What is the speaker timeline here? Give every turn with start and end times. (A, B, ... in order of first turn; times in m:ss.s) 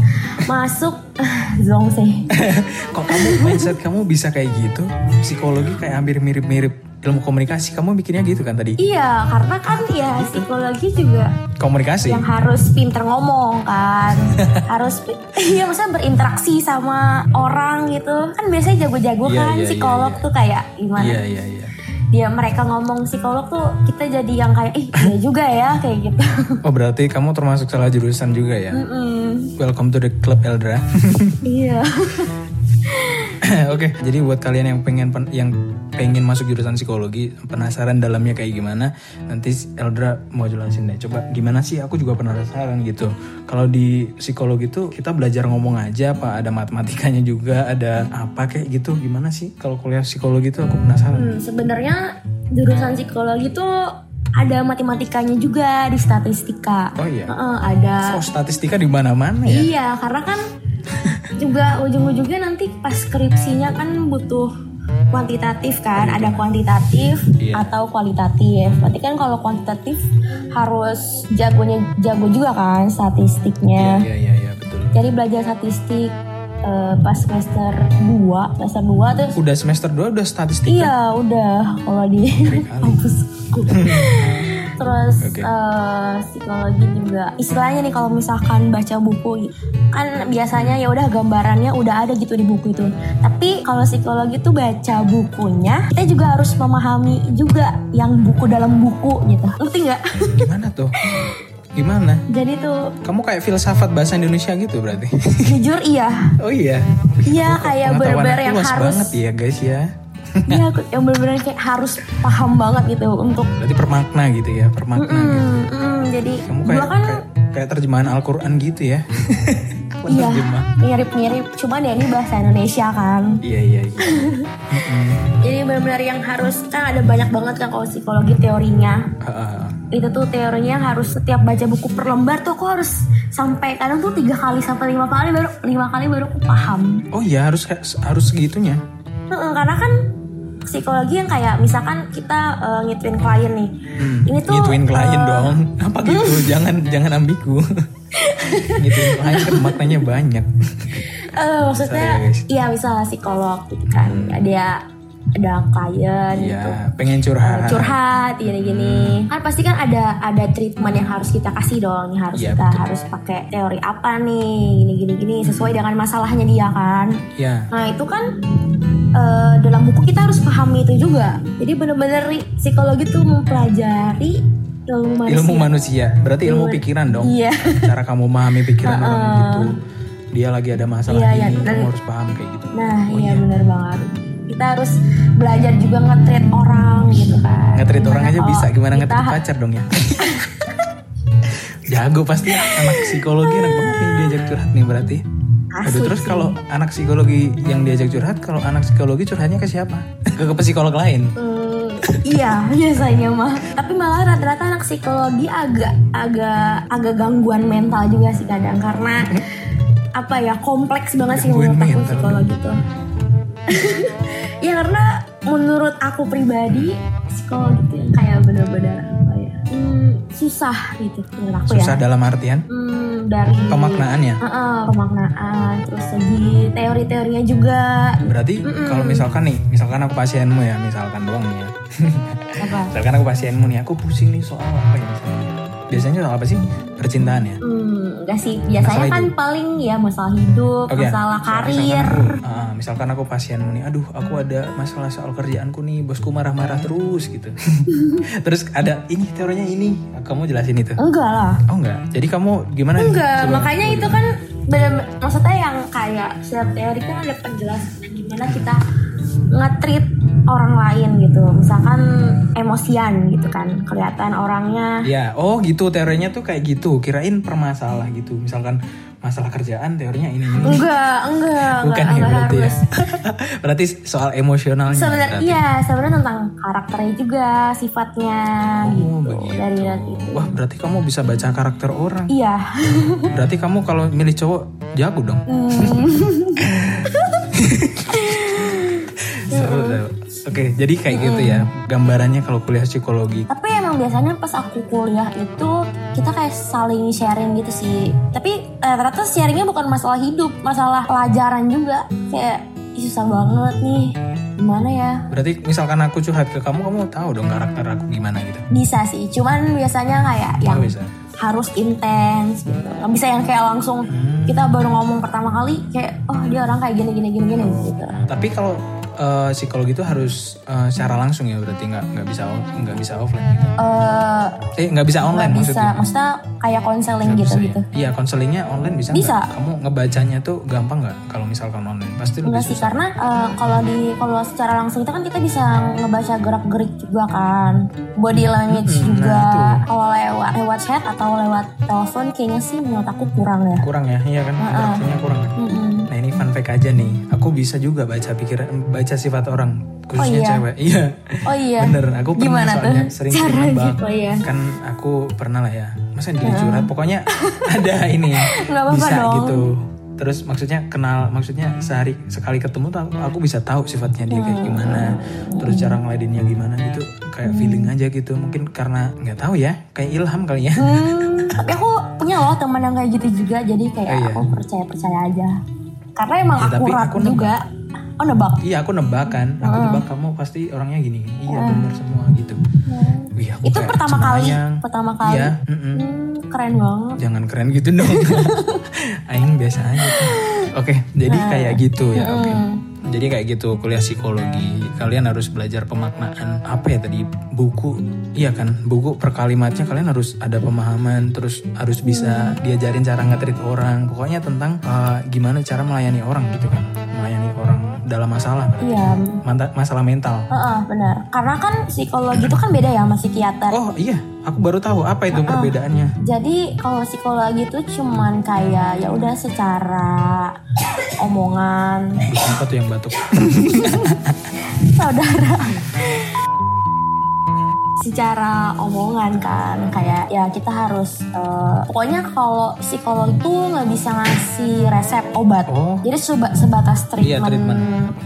0:00.4-0:02.3 A
0:02.3-0:08.8 B
0:03.1-0:03.7 A
0:08.8-0:11.3 A
0:09.8-0:10.4 B
0:11.6-0:12.2 B
0:12.1-0:21.2 A
0:14.4-0:14.6 B
0:19.2-0:20.2 B
0:21.0-0:21.7 B
0:22.1-0:26.6 A
0:26.6-0:28.8 B
0:28.7-0:29.5 A
0:29.6-0:31.4 B
0:31.4-0:32.3 A
0:32.8-0:33.3 A
0:33.4-0:51.3 B
0:51.1-0:52.0 A
0:52.5-0:58.2 A
0:57.0-0:57.3 B
0:58.0-0:59.7 B
0:59.4-1:00.4 A
1:01.0-1:01.3 B
1:01.4-1:04.5 A
1:05.1-1:14.0 A
1:06.0-1:06.4 B
1:07.4-1:07.7 B
1:13.8-1:15.0 B
1:14.9-1:19.4 A
1:19.4-1:20.9 B
1:20.7-1:40.4 A
1:22.4-1:23.0 B
1:23.7-1:24.1 B
1:25.2-1:25.5 B
1:30.6-1:30.8 B
1:40.3-1:41.0 B
1:41.0-1:41.4 A
1:41.8-1:42.2 B
1:42.3-1:42.9 A
1:43.0-1:45.6 B
1:45.4-1:46.3 A
1:46.4-1:50.6 B
1:47.2-1:49.2 A
1:50.5-1:53.5 A
1:53.6-1:55.5 B
1:55.0-1:57.2 A
1:56.4-2:00.7 B
2:00.1-2:03.4 A
2:03.4-2:05.2 B
2:04.0-2:09.1 A
2:09.2-2:09.8 B
2:09.9-2:17.0 A
2:17.1-2:18.8 B
2:19.3-2:19.9 A
2:20.7-2:25.5 A
2:24.0-2:27.6 B
2:26.0-2:26.5 A
2:28.1-2:30.0 A
2:28.4-2:31.1 B
2:31.0-2:34.8 A
2:31.7-2:32.4 B
2:33.9-2:34.4 B
2:35.4-2:36.8 A
2:36.3-2:39.2 B
2:37.4-2:47.2 A
2:42.4-2:42.9 B
2:45.4-2:45.8 B
2:47.4-2:47.7 B
2:47.7-2:48.3 A
2:49.1-2:55.7 A
2:55.3-2:59.7 B
2:56.4-2:57.9 A
2:58.8-2:59.7 A
3:00.3-3:03.4 B
3:01.1-3:01.9 A
3:02.7-3:09.4 A
3:07.8-3:10.4 B
3:10.2-3:10.8 A
3:11.4-3:15.2 B
3:12.5-3:14.3 A
3:15.7-3:16.5 A
3:15.8-3:21.3 B
3:21.4-3:29.4 A
3:22.1-3:22.5 B
3:30.2-3:32.8 A
3:31.3-3:32.5 B
3:33.7-3:42.0 A
3:41.7-3:42.6 B
3:42.7-3:49.2 A
3:43.7-3:44.4 B
3:48.2-3:57.6 B
3:52.6-3:52.9 A
3:57.6-4:02.4 A
3:58.8-3:59.3 B
4:00.9-4:11.0 B
4:07.9-4:08.2 A
4:11.0-4:11.6 A
4:11.7-4:14.2 B
4:13.0-4:18.8 A
4:18.5-4:18.7 B
4:19.5-4:25.0 A
4:25.0-4:30.8 B
4:30.6-4:32.8 A
4:31.7-4:35.6 B
4:34.9-4:40.6 A
4:38.8-4:42.3 B
4:42.3-4:43.3 A
4:43.3-4:46.0 B
4:45.5-4:47.4 A
4:46.6-4:53.5 B
4:48.1-4:50.0 A
4:51.1-4:51.7 A
4:53.5-5:05.2 A
5:05.3-5:08.6 B
5:08.7-5:18.2 A
5:10.7-5:11.1 B
5:14.1-5:14.7 B
5:17.6-5:23.7 B
5:23.8-5:24.6 A
5:24.8-5:25.9 B
5:25.3-5:27.8 A
5:27.2-5:33.0 B
5:29.1-5:29.5 A
5:32.4-5:43.9 A
5:38.7-5:39.8 B
5:43.8-5:45.5 B
5:44.6-5:45.0 A
5:45.6-5:46.1 A
5:46.1-6:11.6 B
5:50.2-5:50.6 A
5:51.4-5:54.4 A
5:56.4-5:57.7 A
5:58.3-5:59.6 A
6:04.3-6:06.0 A
6:07.4-6:07.9 A
6:10.8-6:15.6 A
6:14.1-6:14.4 B
6:16.2-6:17.6 A
6:16.6-6:17.5 B
6:18.2-6:18.6 A
6:18.6-6:22.6 B
6:19.6-6:20.0 A
6:21.5-6:21.8 A
6:22.9-6:27.2 A
6:23.4-6:26.0 B
6:27.2-6:50.5 B
6:28.0-6:28.8 A
6:30.0-6:30.7 A
6:31.3-6:32.8 A
6:42.0-6:42.6 A
6:48.8-6:49.4 A
6:50.5-6:53.8 A
6:53.7-6:56.1 B
6:55.3-7:00.5 A
7:01.2-7:02.3 A
7:02.3-7:04.5 B
7:03.5-7:06.3 A
7:08.0-7:18.1 A
7:15.7-7:16.0 B
7:17.2-7:17.8 B